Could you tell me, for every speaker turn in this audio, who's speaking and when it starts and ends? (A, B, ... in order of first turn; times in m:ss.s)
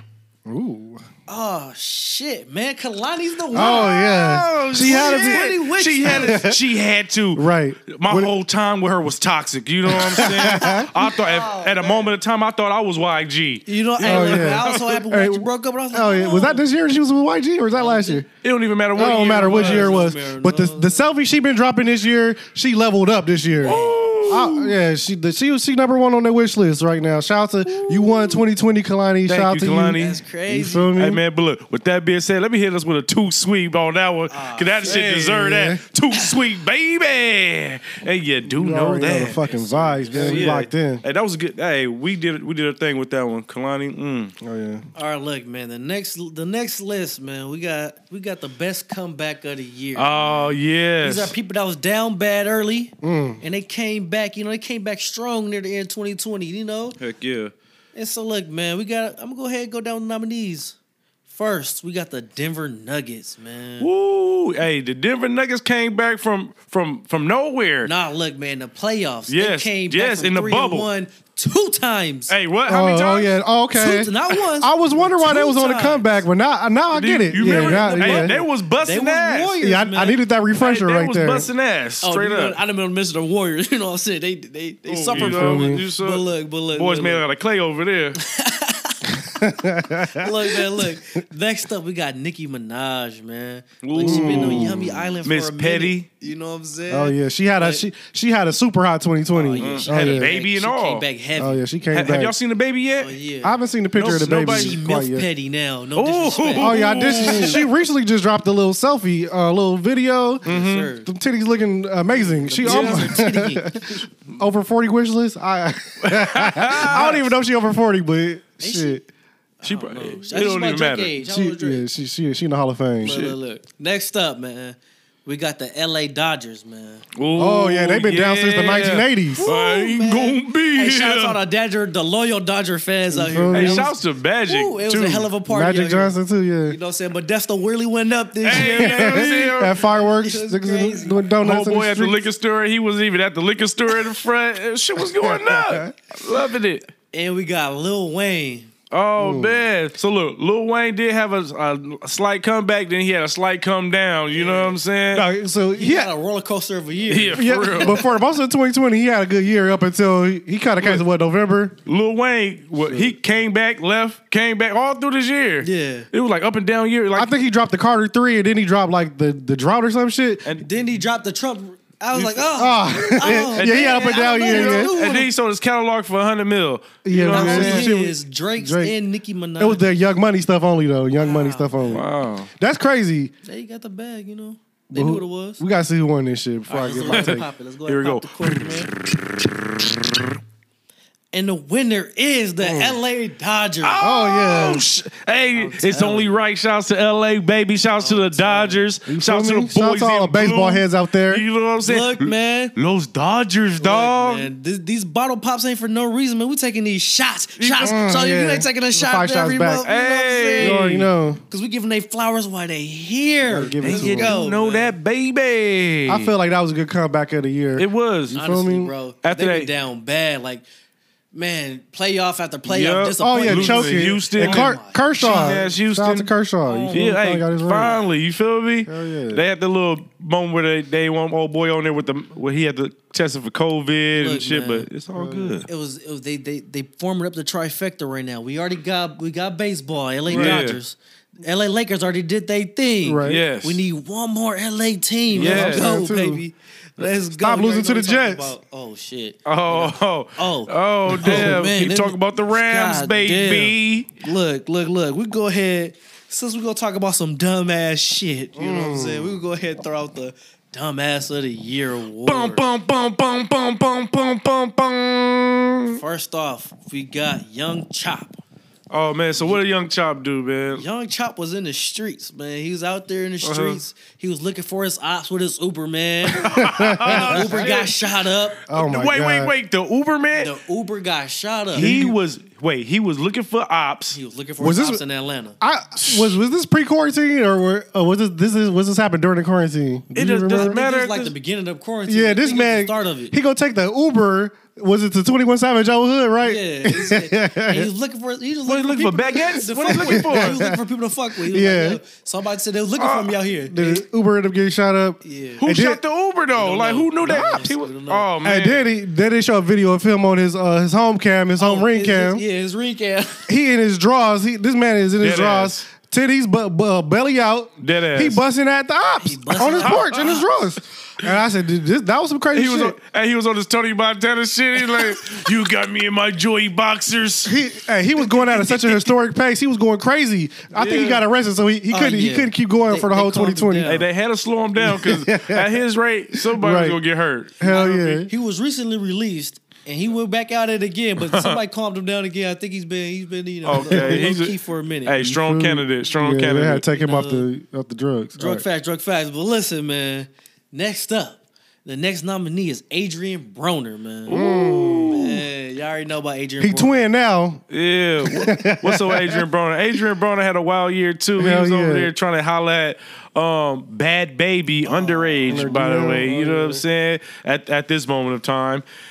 0:00.5-0:01.0 A
0:01.3-0:04.0 B
0:03.5-0:06.6 A
0:03.6-0:15.0 C
0:04.8-0:06.5 B
0:07.4-0:08.3 A
0:09.9-0:10.9 A
0:10.5-0:12.1 B
0:13.7-0:16.6 B
0:14.0-0:18.3 A
0:17.7-0:18.2 B
0:18.4-0:20.0 C
0:19.0-0:31.2 A
0:19.0-0:21.0 B
0:23.6-0:24.8 C
0:23.6-0:24.0 B
0:27.6-0:28.4 C
0:29.3-0:30.2 C
0:29.9-0:30.9 B
0:31.0-0:39.4 C
0:34.3-0:35.1 B
0:34.9-0:35.8 A
0:38.5-0:41.0 A
0:39.2-0:40.6 B
0:40.1-0:44.3 C
0:44.4-0:44.8 A
0:45.0-0:57.0 B
0:50.0-0:51.4 C
0:53.0-0:53.4 A
0:57.0-0:57.5 C
0:58.0-1:00.8 B
1:01.3-1:03.9 B
1:03.8-1:07.9 C
1:07.8-1:12.3 B
1:09.3-1:10.9 C
1:12.3-1:13.3 C
1:12.7-1:18.4 A
1:13.7-1:16.2 B
1:16.9-1:19.6 C
1:17.3-1:20.2 B
1:19.6-1:21.5 A
1:20.6-1:22.6 C
1:22.0-1:27.2 B
1:24.9-1:28.2 C
1:25.1-1:25.9 A
1:28.2-1:29.4 B
1:29.1-1:31.0 A
1:30.0-1:37.9 B
1:33.8-1:36.1 C
1:34.0-1:35.0 A
1:36.9-1:40.3 A
1:39.3-1:41.6 B
1:39.6-1:41.0 C
1:41.4-1:42.3 A
1:41.9-1:43.1 C
1:43.0-1:43.6 B
1:43.4-1:45.3 A
1:44.0-1:44.8 C
1:44.4-1:47.7 B
1:46.0-1:47.6 C
1:46.6-1:50.5 A
1:50.4-1:51.1 B
1:50.5-1:50.9 C
1:51.0-1:59.1 A
1:52.1-1:54.0 B
1:52.6-1:53.1 C
1:56.0-1:57.3 C
1:58.6-1:59.0 B
1:59.6-2:01.8 B
1:59.6-2:01.1 C
2:01.2-2:03.2 A
2:03.0-2:07.0 B
2:03.0-2:03.4 C
2:07.2-2:11.4 C
2:07.4-2:09.5 A
2:09.3-2:14.0 B
2:13.1-2:13.9 A
2:13.5-2:15.3 C
2:14.5-2:21.2 B
2:15.5-2:16.8 A
2:18.4-2:19.8 C
2:18.5-2:22.2 A
2:21.4-2:26.9 C
2:25.1-2:25.9 A
2:27.1-2:28.7 B
2:28.9-2:35.3 C
2:29.2-2:29.6 A
2:34.3-2:34.8 B
2:35.1-2:36.1 A
2:35.8-2:38.1 B
2:37.1-2:38.0 C
2:37.3-2:41.8 A
2:41.9-2:47.3 C
2:42.8-2:43.2 A
2:45.6-2:46.1 B
2:47.1-2:50.4 A
2:50.6-2:55.3 B
2:52.1-2:52.5 C
2:52.6-2:54.9 A
2:53.2-2:57.9 C
2:57.0-2:58.9 A
2:57.3-2:59.8 B
2:59.6-3:03.3 A
3:01.2-3:02.0 B
3:01.9-3:02.5 C
3:03.4-3:05.6 B
3:04.9-3:07.4 A
3:06.7-3:08.9 B
3:07.1-3:10.4 C
3:11.3-3:14.2 B
3:12.6-3:13.0 A
3:13.8-3:24.5 C
3:14.0-3:14.8 A
3:15.5-3:16.4 B
3:18.0-3:18.8 B
3:19.1-3:21.4 A
3:21.8-3:22.7 B
3:23.8-3:30.9 B
3:27.6-3:28.0 C
3:27.8-3:29.9 A
3:29.8-3:31.1 C
3:30.6-3:31.4 A
3:31.5-3:34.9 B
3:33.4-3:34.4 A
3:33.8-3:36.3 C
3:36.1-3:38.9 A
3:37.8-3:38.4 C
3:38.3-3:40.6 B
3:39.2-3:39.7 C
3:41.3-3:45.7 B
3:42.7-3:46.3 C
3:43.2-3:48.0 A
3:46.6-3:47.2 B
3:46.9-3:55.7 C
3:48.9-3:49.4 A
3:54.1-3:54.9 B
3:55.2-3:55.6 A
3:55.7-4:22.6 B
4:00.3-4:00.8 C
4:00.3-4:00.6 A
4:03.0-4:03.4 A
4:03.2-4:03.8 C
4:05.3-4:06.4 A
4:05.4-4:06.0 C
4:07.2-4:08.5 A
4:09.4-4:14.2 C
4:11.1-4:11.6 A
4:18.6-4:19.4 A
4:22.3-4:26.0 C
4:25.9-4:28.4 B
4:28.9-4:30.8 C
4:30.7-4:38.6 B
4:33.4-4:33.8 C
4:36.4-4:37.7 A
4:36.4-4:40.6 C
4:38.7-4:39.5 A
4:40.4-4:42.1 B
4:41.7-4:44.2 C
4:44.1-4:45.6 B
4:44.6-4:45.0 A
4:45.6-4:50.7 A
4:46.0-4:46.3 C
4:50.2-4:51.3 C
4:50.5-4:53.3 B
4:52.1-4:57.9 A
4:56.4-5:04.0 B
4:58.7-5:00.6 C
4:59.9-5:00.8 A
5:01.4-5:02.0 A
5:03.0-5:03.4 C
5:03.7-5:06.0 A
5:05.2-5:05.6 B
5:05.6-5:08.9 C
5:06.5-5:08.3 B
5:07.3-5:07.7 A
5:08.4-5:12.4 A
5:11.6-5:13.5 B
5:13.5-5:23.0 A
5:15.2-5:15.8 C
5:17.8-5:18.4 C
5:19.2-5:20.4 B
5:19.8-5:20.4 C
5:22.5-5:27.6 C
5:27.5-5:34.0 A
5:28.3-5:29.1 C
5:30.7-5:31.2 C
5:31.9-5:34.1 B
5:33.8-5:37.9 C
5:34.8-5:35.8 A
5:36.3-5:37.0 A
5:37.6-5:38.3 A
5:37.6-5:45.3 B
5:41.2-5:41.6 C
5:43.6-5:44.6 C
5:43.8-5:44.2 A
5:45.1-5:46.9 C
5:45.2-5:48.6 A
5:46.9-5:47.5 B
5:48.4-5:54.4 B
5:54.3-5:55.4 C
5:54.3-5:55.3 A
5:55.1-5:57.1 B
5:56.6-5:57.6 A
5:57.7-6:08.8 C
5:58.2-5:59.4 A
6:01.4-6:02.1 A
6:04.8-6:05.8 B
6:05.5-6:06.8 A